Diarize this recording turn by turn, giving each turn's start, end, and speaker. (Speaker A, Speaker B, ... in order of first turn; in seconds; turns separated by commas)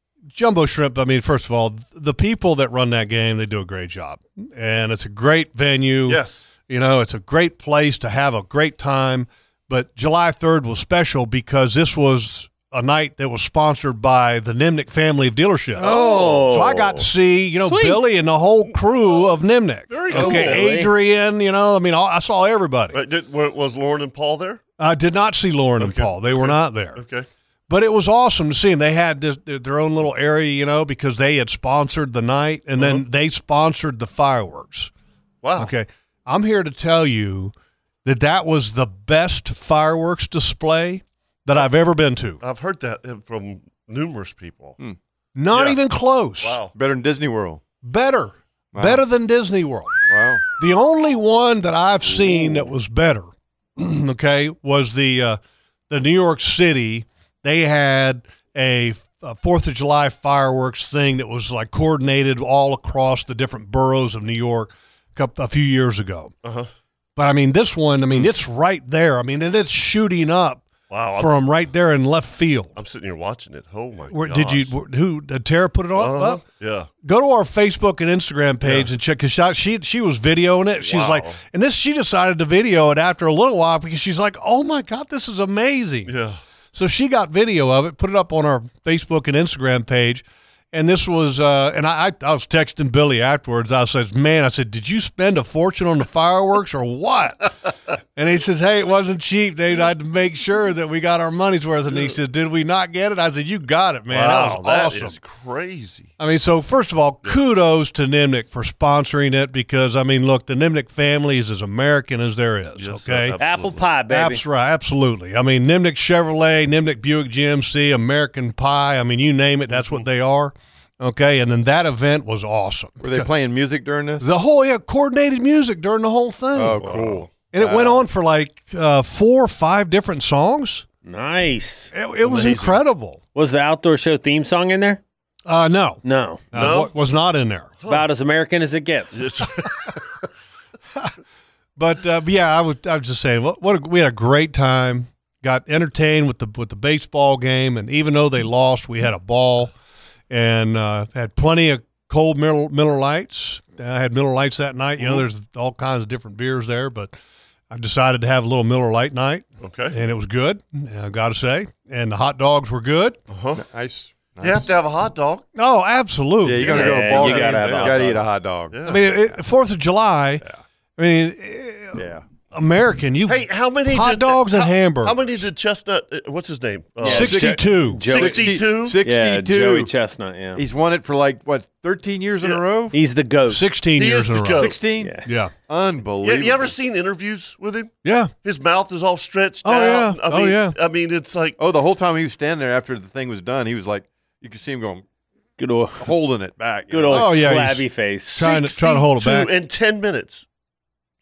Speaker A: 0.3-23.0, Speaker B: 6.1-6.4, Speaker B: 15.8-16.6, Speaker C: 15.8-17.1, Speaker C: 17.6-18.1, Speaker B: 19.9-20.6, Speaker C: 20.1-20.9, Speaker B: 22.9-24.6, Speaker A: 24.8-27.0, Speaker B: 25.8-27.3, Speaker A: 27.7-34.9, Speaker B: 32.8-33.0, Speaker B: 35.4-35.7, Speaker A: 35.6-37.5, Speaker A: 38.0-42.4, Speaker B: 42.4-44.8, Speaker A: 45.4-46.6, Speaker B: 45.5-45.8, Speaker B: 46.4-46.7, Speaker D: 46.8-47.6, Speaker A: 47.8-49.9, Speaker D: 48.7-49.0, Speaker D: 50.1-50.4, Speaker A: 50.6-55.4, Speaker A: 55.9-66.3, Speaker B: 66.4-66.7, Speaker A: 67.2-72.7, Speaker B: 70.9-71.3, Speaker B: 72.8-74.7, Speaker A: 74.1-76.4, Speaker B: 76.0-76.9, Speaker A: 77.0-86.1, Speaker B: 78.6-78.9, Speaker B: 80.8-81.4, Speaker B: 86.1-86.4, Speaker A: 86.7-97.5, Speaker A: 98.2-105.2, Speaker B: 101.9-102.2, Speaker B: 104.1-106.1, Speaker A: 106.2-113.4, Speaker B: 112.8-113.8, Speaker C: 113.4-114.4, Speaker A: 114.1-123.3, Speaker D: 123.0-124.3, Speaker A: 124.2-126.8, Speaker D: 126.5-127.3, Speaker B: 126.8-127.3, Speaker A: 127.5-130.8, Speaker C: 127.6-128.1, Speaker C: 131.1-131.9, Speaker A: 131.9-133.2, Speaker B: 132.2-132.8, Speaker C: 133.3-135.0, Speaker A: 135.5-136.0, Speaker C: 136.0-136.4, Speaker A: 136.5-137.7, Speaker B: 136.5-136.9, Speaker B: 137.8-138.1, Speaker C: 137.9-139.3, Speaker B: 139.1-140.1, Speaker A: 141.8-149.7, Speaker A: 150.3-157.1, Speaker B: 155.0-155.2, Speaker A: 157.7-163.2, Speaker B: 159.6-160.0, Speaker B: 163.3-163.6, Speaker D: 163.5-164.7, Speaker B: 164.4-165.5, Speaker A: 165.6-167.3, Speaker D: 166.4-168.8, Speaker B: 166.6-167.9, Speaker C: 166.7-168.2, Speaker B: 168.7-169.1, Speaker A: 168.9-170.4, Speaker A: 171.0-175.5, Speaker D: 171.9-172.2, Speaker B: 173.3-177.4, Speaker C: 177.0-180.6, Speaker A: 177.1-178.0, Speaker D: 177.1-179.9, Speaker B: 178.1-179.0, Speaker D: 180.6-183.0, Speaker C: 182.9-183.7, Speaker A: 183.5-184.7, Speaker B: 184.0-184.8, Speaker D: 184.6-186.8, Speaker C: 185.0-185.3, Speaker A: 185.2-185.5, Speaker B: 186.2-191.6, Speaker A: 188.0-188.3, Speaker A: 189.6-190.8, Speaker D: 191.6-195.1, Speaker C: 195.6-196.1, Speaker D: 196.0-197.6, Speaker C: 196.9-198.3, Speaker A: 197.1-199.5, Speaker B: 198.3-200.5